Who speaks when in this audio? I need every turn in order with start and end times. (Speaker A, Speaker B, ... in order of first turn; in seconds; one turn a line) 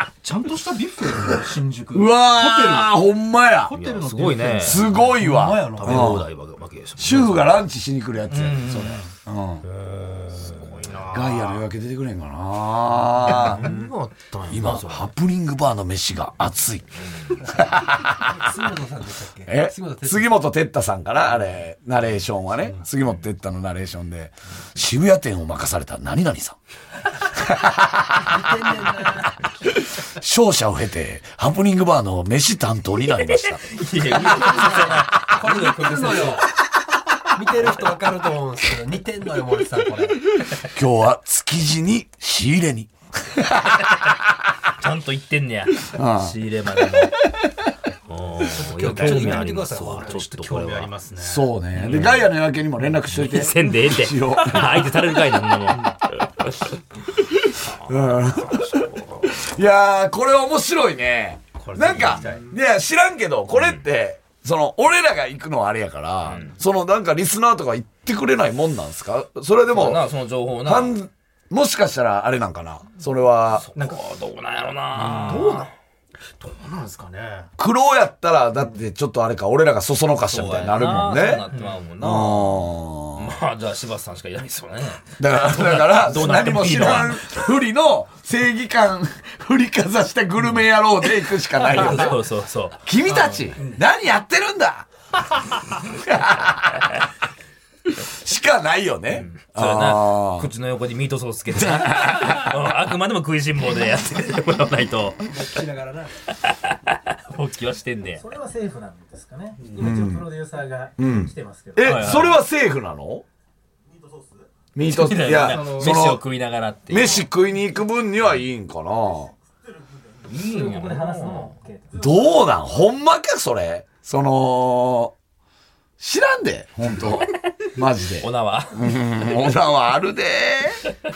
Speaker A: 0.2-3.0
Speaker B: 1.9-3.8
Speaker A: 3.6-4.9
Speaker C: 3.7-4.9
Speaker B: 4.6-6.3
Speaker D: 4.9-6.2
Speaker C: 5.8-7.6
Speaker B: 7.0-9.7
Speaker A: 8.3-9.1
Speaker C: 9.6-11.1
Speaker A: 10.5-11.7
Speaker B: 11.1-13.7
Speaker C: 13.2-15.1
Speaker B: 14.5-18.4
Speaker D: 18.2-20.4
Speaker B: 19.5-26.6
Speaker B: 27.3-28.4
Speaker D: 28.2-29.3
Speaker B: 29.6-33.7
Speaker C: 33.2-36.5
Speaker D: 34.3-36.5
Speaker D: 37.4-40.3
Speaker B: 40.6-43.5
Speaker C: 44.8-47.2
Speaker B: 45.9-46.4
Speaker C: 48.1-50.9
Speaker D: 48.4-50.3
Speaker A: 49.0-51.5
Speaker B: 51.2-55.0
Speaker C: 51.8-52.3
Speaker C: 53.0-56.7
Speaker C: 57.5-59.4
Speaker B: 57.9-70.1
Speaker A: 61.6-62.5
Speaker C: 63.5-63.8
Speaker C: 66.2-66.6
Speaker C: 69.7-71.0
Speaker B: 70.6-73.7
Speaker C: 73.5-75.7
Speaker A: 73.8-74.0
Speaker A: 75.0-75.7
Speaker B: 75.3-75.5
Speaker A: 76.4-77.5
Speaker B: 77.6-81.5
Speaker C: 80.3-87.3
Speaker A: 81.5-81.8
Speaker B: 82.0-83.4
Speaker B: 85.2-92.2
Speaker C: 91.6-93.6
Speaker B: 92.8-94.9
Speaker B: 95.8-96.9
Speaker B: 97.9-100.5
Speaker C: 99.1-105.3
Speaker B: 101.5-102.6
Speaker D: 105.2-106.2
Speaker C: 106.4-108.2
Speaker E: 108.1-112.3
Speaker B: 109.8-110.3
Speaker B: 111.0-113.2
Speaker C: 111.8-112.4
Speaker B: 114.8-116.3
Speaker C: 114.9-117.3
Speaker A: 115.4-116.0
Speaker B: 116.9-119.3
Speaker C: 120.2-121.6
Speaker E: 120.3-122.6
Speaker B: 121.9-125.1
Speaker B: 126.0-130.9
Speaker C: 128.2-128.9